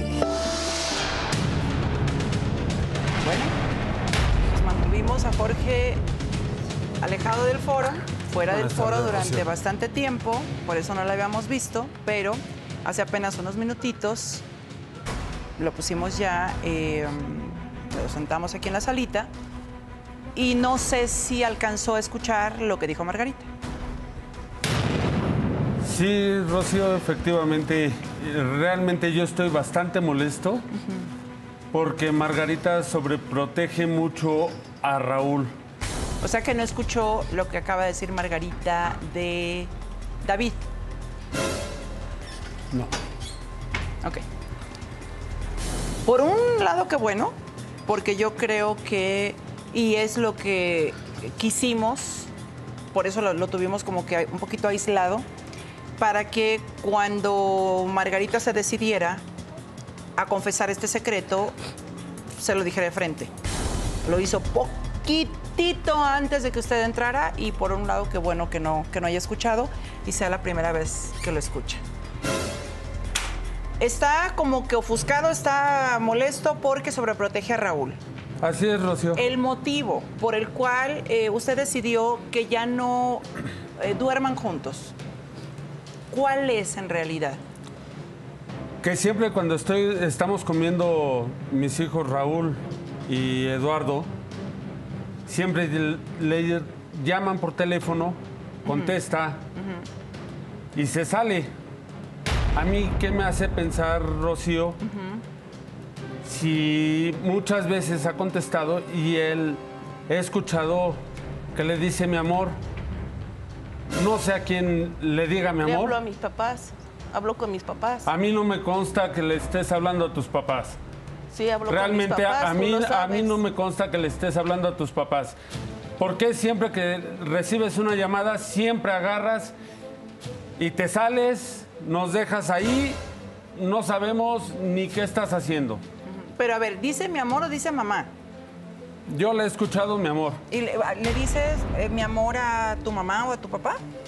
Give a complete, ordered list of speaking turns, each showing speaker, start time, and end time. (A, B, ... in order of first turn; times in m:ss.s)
0:03.2-0:03.6 A
0:04.5-0:06.0 A
0:07.0-0:14.5 A
0:08.5-0:09.5 B
0:15.6-0:19.3 A
0:20.4-0:23.5 A
0:25.8-0:30.7 B
0:30.8-0:31.1 A
0:31.7-0:35.5 B
0:36.2-0:39.7 A
0:40.2-0:40.6 A
0:46.0-0:52.3 A
0:52.9-0:55.3 A
0:56.0-0:59.2 A
1:00.2-1:01.6 A
1:02.4-1:03.3 A
1:04.0-1:11.8 A
1:13.8-1:18.0 A
1:18.4-1:19.2 B
1:19.2-1:23.3 A
1:23.8-1:25.0 A
1:26.1-1:27.4 A
1:28.8-1:34.1 B
1:35.3-1:39.4 B
1:38.6-1:39.0 A
1:39.6-1:39.9 A
1:40.8-1:41.5 B
1:42.6-1:44.8 B
1:44.8-1:45.2 A
1:46.2-1:51.0 B
1:51.5-1:52.6 B
1:53.9-1:56.0 B
1:55.6-1:58.1 C
1:58.1-2:00.8 B
2:01.3-2:03.4 C
2:01.7-2:05.4 B
2:06.0-2:09.6 B
2:10.6-2:13.0 B
2:13.6-2:15.8 B
2:16.2-2:18.1 A
2:19.1-2:20.4 B
2:20.5-2:23.8 A